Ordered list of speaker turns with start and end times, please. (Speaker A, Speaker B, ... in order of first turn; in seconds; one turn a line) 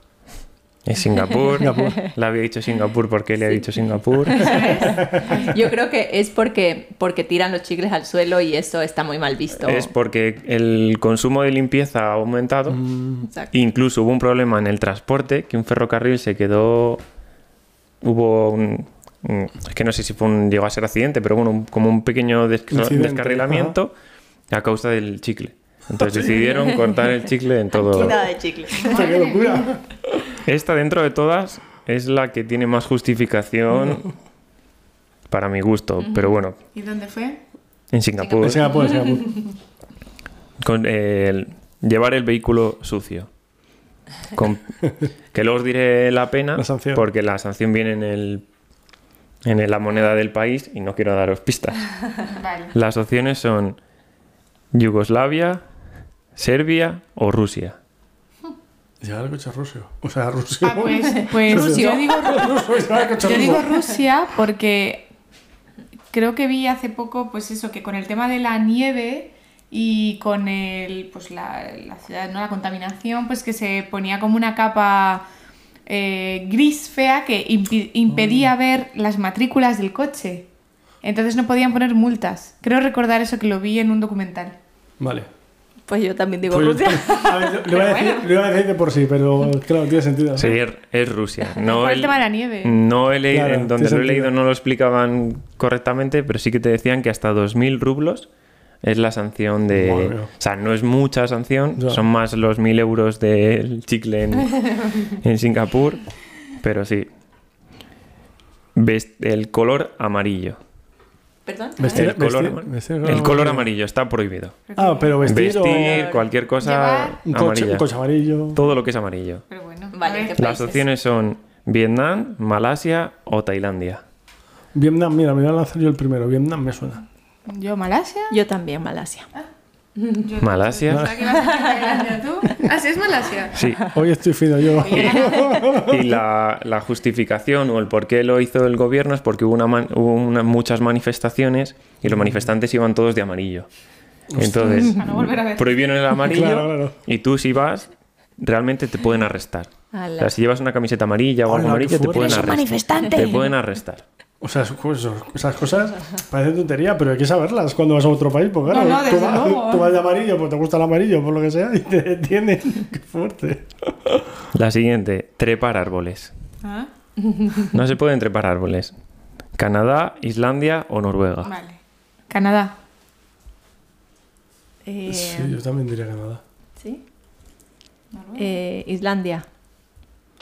Speaker A: 0.8-4.9
Speaker B: 1.6-1.9
Speaker B: 4.3-9.9
Speaker C: 4.4-5.5
Speaker A: 9.6-12.8
Speaker D: 12.7-13.3
Speaker A: 13.5-17.0
Speaker A: 18.0-23.9
Speaker D: 22.7-23.8
Speaker A: 24.5-28.2
Speaker D: 26.0-26.4
Speaker B: 26.3-27.0
Speaker B: 27.7-29.1
Speaker D: 28.8-30.4
Speaker C: 28.8-29.7
Speaker A: 30.4-34.1
Speaker D: 33.7-34.1
Speaker A: 35.3-36.6
Speaker C: 36.7-37.4
Speaker A: 37.9-38.6
Speaker B: 38.2-39.0
Speaker D: 38.4-39.4
Speaker A: 40.6-43.3
Speaker A: 44.3-48.4
Speaker D: 46.6-47.0
Speaker A: 49.5-52.1
Speaker C: 52.3-52.7
Speaker A: 52.7-53.8
Speaker A: 54.7-55.6
Speaker A: 56.4-57.8
Speaker D: 59.0-63.8
Speaker C: 60.6-62.6
Speaker B: 61.2-62.5
Speaker C: 63.2-65.1
Speaker B: 63.2-63.7
Speaker C: 66.1-75.2
Speaker C: 75.9-80.5
Speaker D: 78.1-78.5
Speaker C: 81.0-84.6
Speaker D: 85.0-85.3
Speaker B: 85.9-87.8
Speaker D: 86.5-90.6
Speaker C: 87.7-88.3
Speaker A: 90.4-98.3
Speaker C: 91.5-92.8
Speaker D: 93.3-94.3
Speaker A: 98.8-107.1
Speaker D: 99.7-100.3
Speaker D: 101.8-102.0
Speaker A: 108.8-110.6
Speaker B: 111.5-112.1
Speaker D: 111.8-113.7
Speaker A: 111.8-114.6
Speaker C: 114.7-115.2
Speaker D: 114.8-116.0
Speaker A: 115.2-117.9
Speaker B: 115.5-116.3
Speaker C: 116.6-117.2
Speaker D: 117.3-118.6
Speaker A: 118.5-119.5
Speaker C: 119.5-120.6
Speaker B: 119.9-120.9
Speaker A: 120.4-124.0
Speaker D: 124.7-127.0
Speaker C: 127.5-128.3
Speaker B: 128.3-129.3
Speaker C: 130.2-133.6
Speaker A: 130.4-131.1
Speaker D: 130.9-131.2
Speaker B: 131.3-132.1
Speaker A: 133.5-133.9
Speaker D: 133.8-136.2
Speaker C: 134.8-135.7
Speaker A: 134.9-143.7
Speaker D: 142.1-142.5
Speaker D: 144.3-145.3
Speaker A: 144.4-154.0
Speaker C: 145.0-145.7
Speaker D: 146.2-147.0
Speaker B: 149.9-150.3
Speaker D: 151.5-152.8
Speaker C: 152.6-153.4
Speaker B: 152.7-153.4
Speaker D: 154.4-164.4
Speaker C: 158.7-159.9
Speaker A: 164.5-166.3
Speaker C: 166.6-166.9
Speaker A: 167.7-168.9
Speaker A: 169.6-171.5
Speaker C: 171.4-172.7
Speaker B: 174.8-175.6
Speaker D: 175.1-176.4
Speaker C: 178.1-178.6
Speaker B: 178.4-179.4